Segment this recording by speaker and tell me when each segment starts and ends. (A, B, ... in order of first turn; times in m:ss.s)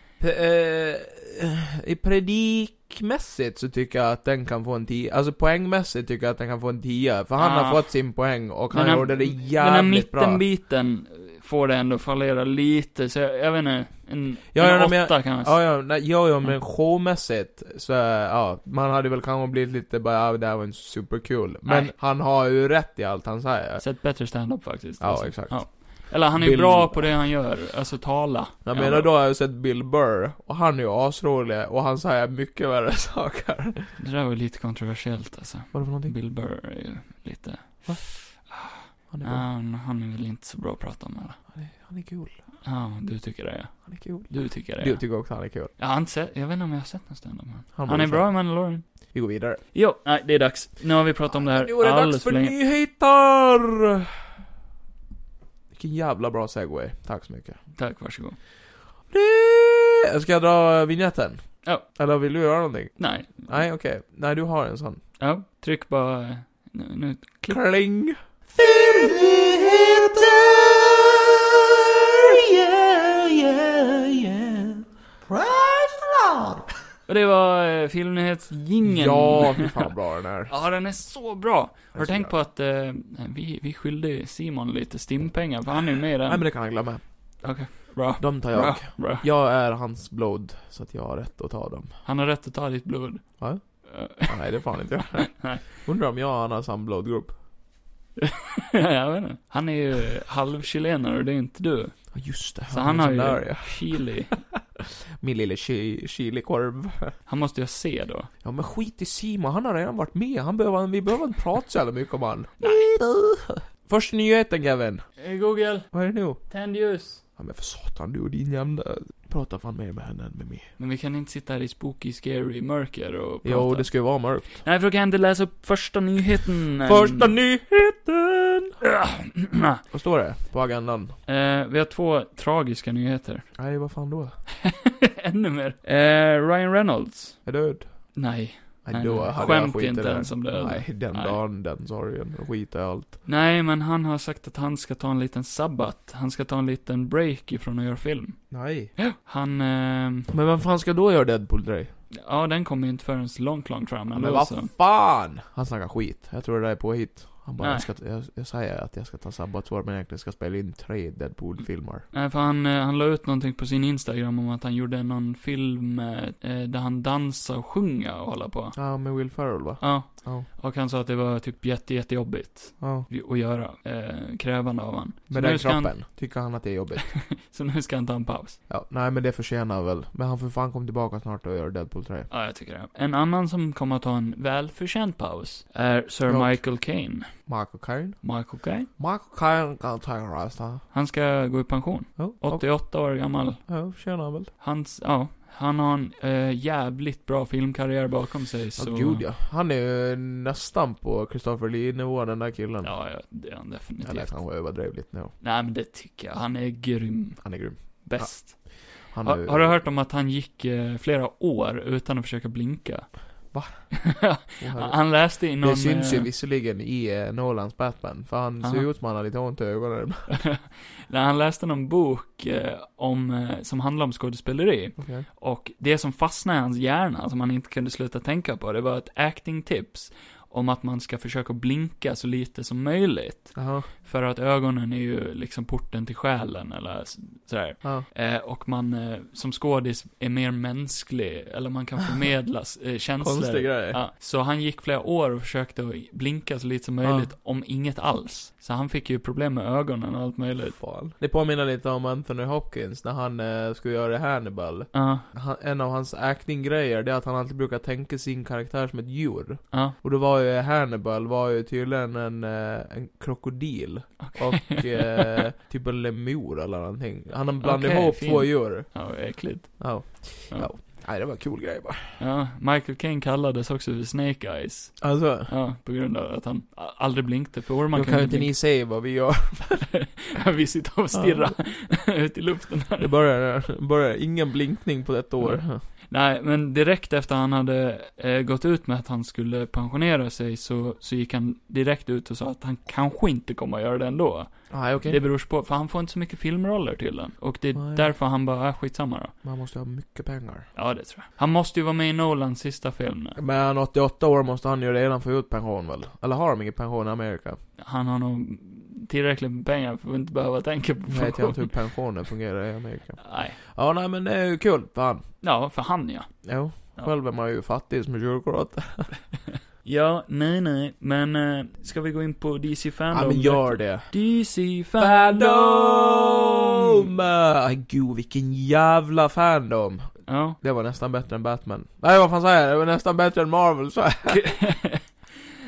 0:00.2-0:10.4 A
0:07.4-0:08.1 B
0:08.7-0:15.8 B
0:14.5-0:23.8 A
0:21.6-0:21.9 B
0:23.8-0:29.1 B
0:25.0-0:27.2 A
0:28.6-0:33.9 A
0:34.0-0:41.4 B
0:35.7-0:36.1 A
0:37.8-0:38.1 A
0:39.1-0:39.4 A
0:41.5-0:42.4 A
0:42.6-0:45.1 B
0:43.8-0:45.7 A
0:45.8-0:48.8 B
0:47.7-0:48.3 A
0:49.1-0:49.6 A
0:49.7-0:52.6 B
0:51.3-0:54.1 A
0:55.7-0:57.6 A
0:57.8-0:58.4 B
0:59.1-1:05.0 A
1:03.0-1:03.6 B
1:05.2-1:07.6 B
1:07.5-1:08.2 A
1:08.5-1:16.6 C
1:17.1-1:19.9 B
1:18.8-1:20.5 A
1:20.5-1:26.6 B
1:21.9-1:22.3 A
1:26.3-1:27.0 A
1:27.4-1:29.2 B
1:28.2-1:32.0 A
1:32.0-1:34.6 B
1:33.4-1:37.4 A
1:35.2-1:35.7 B
1:38.2-1:42.1 B
1:42.1-1:47.2 A
1:42.7-1:44.4 B
1:47.3-1:48.3 B
1:48.4-1:55.1 A
1:52.6-1:52.9 B
1:55.2-1:57.2 B
1:55.9-1:56.4 A
1:57.4-2:00.7 A
2:00.8-2:07.3 B
2:03.4-2:04.6 A
2:06.8-2:08.8 A
2:08.8-2:09.8 B
2:09.9-2:11.2 A
2:11.2-2:13.6 B
2:13.6-2:14.4 A
2:14.6-2:17.5 B
2:17.4-2:18.2 A
2:18.1-2:21.4 B
2:18.8-2:23.2 A
2:23.2-2:30.3 B
2:28.5-2:28.9 A
2:30.3-2:31.9 A
2:32.1-2:34.7 B
2:34.1-2:42.1 A
2:37.6-2:37.9 B
2:42.1-2:48.8 B
2:48.8-2:50.5 A
2:49.8-2:56.0 B
2:52.8-2:53.1 A
2:55.3-2:57.2 A
2:57.1-2:58.6 B
2:58.7-3:02.3 A
3:02.3-3:07.3 B
3:06.2-3:06.6 A
3:07.4-3:10.8 A
3:08.2-3:08.9 B
3:10.9-3:13.7 B
3:12.2-3:12.8 A
3:13.7-3:14.5 A
3:14.6-3:19.2 B
3:18.8-3:23.0 A
3:22.8-3:24.4 B
3:24.0-3:25.3 A
3:25.4-3:36.3 B
3:27.4-3:29.8 A
3:33.5-3:40.4 A
3:38.6-3:38.9 B
3:40.3-4:10.8 B
3:45.0-3:45.3 A
3:53.5-3:53.9 A
4:03.2-4:04.0 A
4:07.0-4:07.3 A
4:10.8-4:32.2 A
4:14.9-4:15.3 B
4:24.2-4:25.4 B
4:27.6-4:30.7 B
4:32.2-4:38.6 B
4:35.0-4:35.5 A
4:37.9-4:40.0 A
4:39.9-4:43.1 B
4:41.1-4:41.6 A
4:43.0-4:45.8 A
4:45.4-4:59.3 B
4:54.7-4:55.2 A
4:57.7-4:58.1 A
4:59.4-5:00.7 A
5:00.7-5:03.4 B
5:03.4-5:07.6 A
5:07.8-5:11.9 B
5:11.1-5:15.3 A
5:13.2-5:13.6 B
5:15.4-5:17.1 B
5:16.4-5:19.2 A
5:19.8-5:26.6 B
5:23.1-5:24.2 A
5:25.0-5:34.5 A
5:30.3-5:30.6 B
5:34.3-5:35.2 B